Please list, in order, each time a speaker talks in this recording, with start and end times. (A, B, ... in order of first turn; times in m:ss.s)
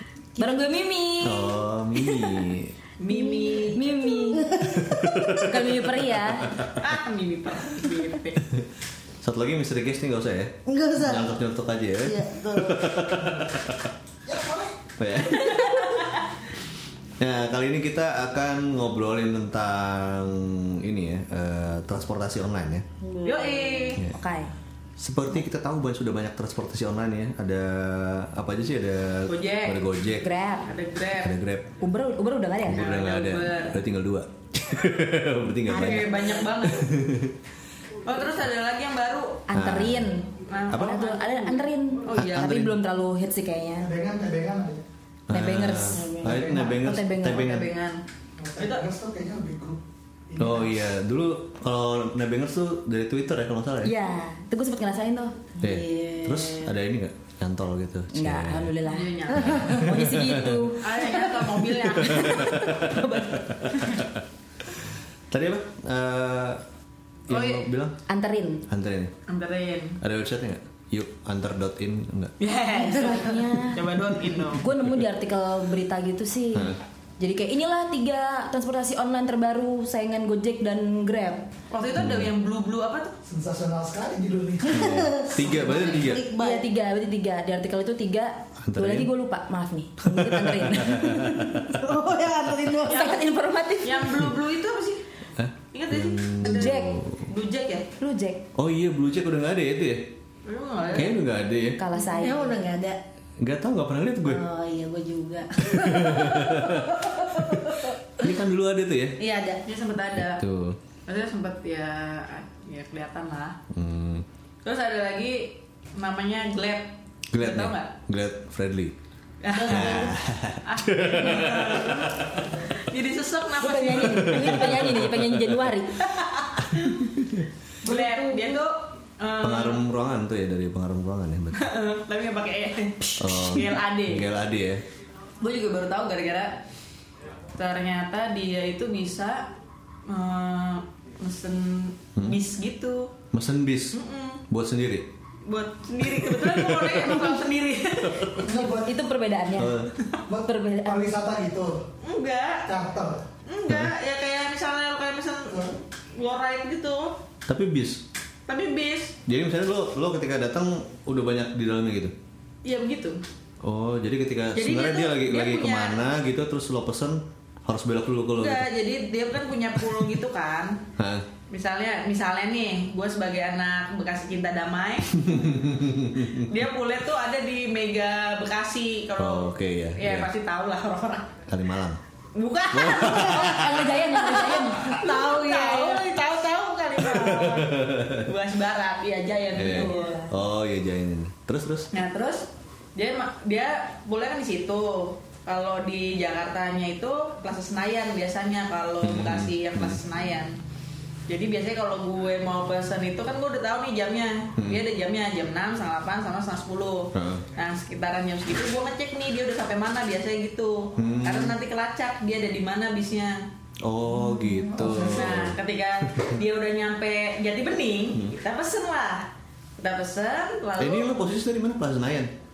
0:00.4-0:01.6 A
0:01.2-0:02.7 B
0:02.2-0:02.4 C
0:03.0-0:03.8 D
0:03.1-0:05.5 C
0:03.7-0:04.5 A
0:04.7-0:06.9 B
0:05.3-0:06.5 A
0:06.7-0:08.4 D
0:09.2-0:13.9 B
0:10.7-0:11.4 C
0:12.0-0:12.9 C
0:14.2-0:14.7 E
0:15.0-0:16.0 B
0:15.4-0:16.2 D
0:17.2-0:22.8 B
0:23.0-0:24.0 C
0:23.2-0:24.0 D
0:24.0-0:24.5 A
0:25.0-0:30.3 B
0:29.3-0:29.9 D
0:30.2-0:30.7 A
0:30.6-0:31.3 D
0:31.1-0:31.7 B
0:31.8-0:33.0 A
0:32.6-0:37.3 B
0:32.7-0:33.8 D
0:35.7-0:36.9 D
0:35.7-0:36.5 C
0:38.0-0:39.4 D
0:39.5-0:43.9 A
0:39.5-0:40.1 B
0:40.5-0:42.6 D
0:42.1-0:42.8 B
0:43.8-0:44.8 E
0:45.3-0:47.7 B
0:45.3-0:47.5 A
0:45.9-0:46.4 C
0:47.3-0:48.0 D
0:48.4-0:50.8 E
0:48.6-0:48.8 D
0:50.4-0:53.9 B
0:53.8-0:55.3 A
0:55.6-0:56.7 C
0:55.6-0:58.8 B
0:58.1-1:01.6 A
0:58.8-0:59.8 D
0:59.3-0:59.6 C
0:59.4-1:00.7 B
1:00.8-1:02.6 D
1:02.0-1:04.2 B
1:02.4-1:03.4 A
1:05.3-1:06.6 B
1:07.3-1:08.0 B
1:07.3-1:07.7 D
1:08.1-1:08.7 A
1:08.7-1:09.1 B
1:09.3-1:10.0 D
1:10.0-1:12.3 B
1:12.4-1:14.6 D
1:12.8-1:13.5 C
1:12.8-1:13.8 A
1:14.5-1:21.5 A
1:16.5-1:16.8 B
1:21.7-1:23.2 D
1:22.0-1:22.3 B
1:23.3-1:25.0 E
1:24.6-1:26.6 C
1:24.7-1:26.2 B
1:26.4-1:31.7 A
1:28.6-1:29.1 B
1:30.0-1:31.8 B
1:31.7-1:33.2 C
1:32.8-1:34.2 A
1:32.9-1:33.2 D
1:33.8-1:35.0 D
1:35.4-1:37.3 B
1:35.7-1:37.9 D
1:36.4-1:37.0 A
1:38.0-1:38.4 A
1:38.5-1:40.1 B
1:40.4-1:41.2 D
1:40.9-1:41.8 B
1:41.8-1:42.6 A
1:41.9-1:43.0 C
1:43.4-1:44.4 B
1:44.2-1:48.3 C
1:45.6-1:49.2 B
1:49.2-1:49.6 C
1:49.6-1:50.4 D
1:50.2-1:50.8 B
1:51.1-1:53.6 D
1:53.7-1:54.2 B
1:54.6-1:57.9 D
1:57.3-1:58.9 B
1:59.4-2:04.8 D
1:59.5-2:00.2 C
1:59.6-2:02.4 B
2:03.6-2:06.0 A
2:04.3-2:05.6 B
2:06.0-2:07.2 D
2:07.8-2:09.8 D
2:07.8-2:08.6 A
2:09.4-2:11.6 B
2:11.6-2:14.3 D
2:13.2-2:14.8 B
2:15.4-2:16.6 D
2:17.6-2:19.5 D
2:20.1-2:23.1 D
2:23.3-2:24.0 B
2:23.9-2:24.4 D
2:24.5-2:25.1 B
2:25.4-2:28.6 D
2:26.0-2:27.3 B
2:28.0-2:28.3 B
2:28.4-2:29.0 E
2:28.7-2:29.8 A
2:29.6-2:29.9 B
2:30.3-2:31.8 E
2:30.4-2:31.1 A
2:32.0-2:32.7 D
2:32.7-2:33.2 E
2:33.5-2:37.2 D
2:35.5-2:35.8 E
2:37.5-2:38.0 B
2:38.5-2:39.2 D
2:39.2-2:42.1 B
2:42.6-2:43.2 D
2:43.6-2:48.7 B
2:44.5-2:46.0 D
2:48.4-2:50.8 D
2:51.0-2:51.2 B
2:51.5-2:55.6 D
2:55.2-2:56.5 B
2:56.3-3:01.3 D
2:59.2-3:00.3 B
3:01.5-3:02.0 B
3:02.3-3:10.2 D
3:02.7-3:03.8 B
3:03.3-3:04.9 A
3:04.9-3:07.1 C
3:07.1-3:08.3 B
3:09.5-3:11.9 B
3:09.6-3:10.2 A
3:11.9-3:20.6 D
3:19.0-3:20.0 B
3:21.3-3:33.4 D
3:24.6-3:24.8 B
3:27.1-3:27.4 B
3:31.0-3:31.6 B
3:33.8-3:36.3 B
3:34.4-3:34.7 A
3:34.8-3:41.1 D
3:40.8-3:42.3 B